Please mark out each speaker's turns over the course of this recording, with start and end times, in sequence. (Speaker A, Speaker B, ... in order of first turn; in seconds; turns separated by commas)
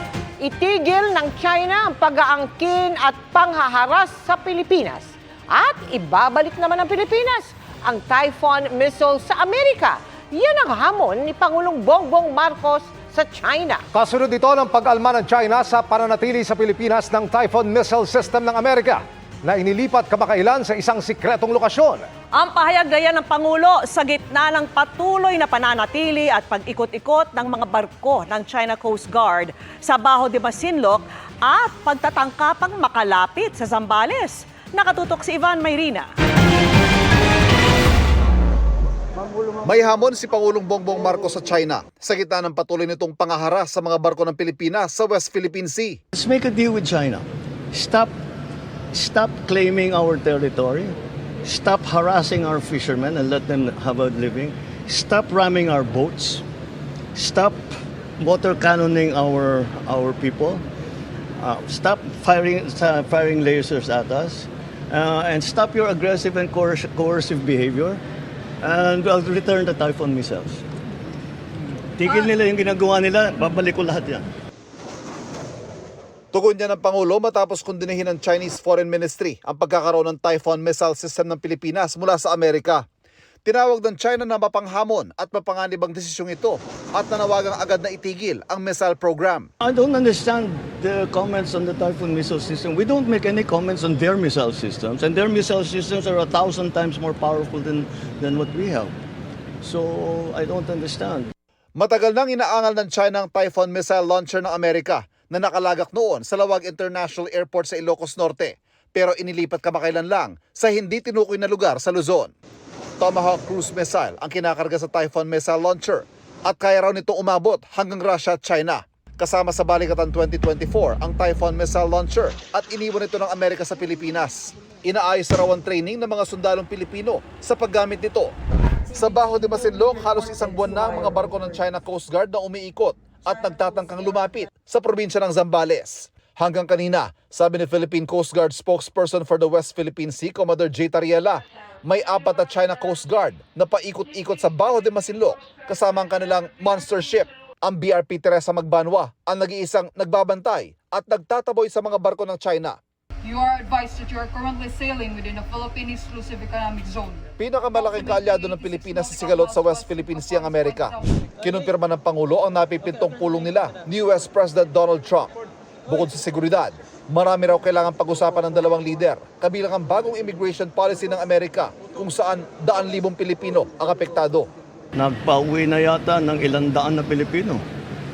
Speaker A: 0.4-13.8, Speaker B: 13.9-22.1, Speaker C: 22.3-36.1, Speaker D: 39.6-46.0, Speaker E: 46.1-48.1, Speaker E: 48.9-56.4, Speaker E: 57.1-60.6, Speaker E: 61.4-68.0, Speaker E: 68.6-70.6, Speaker E: 72.0-74.2, Speaker D: 76.3-82.8, Speaker D: 83.4-89.5, Speaker E: 89.6-98.9, Speaker E: 99.6-101.3, Speaker D: 101.8-112.3, Speaker D: 113.0-128.3, Speaker D: 128.9-152.7, Speaker F: 153.2-161.1, Speaker D: 157.4-165.3, Speaker D: 165.9-174.5, Speaker E: 174.9-177.6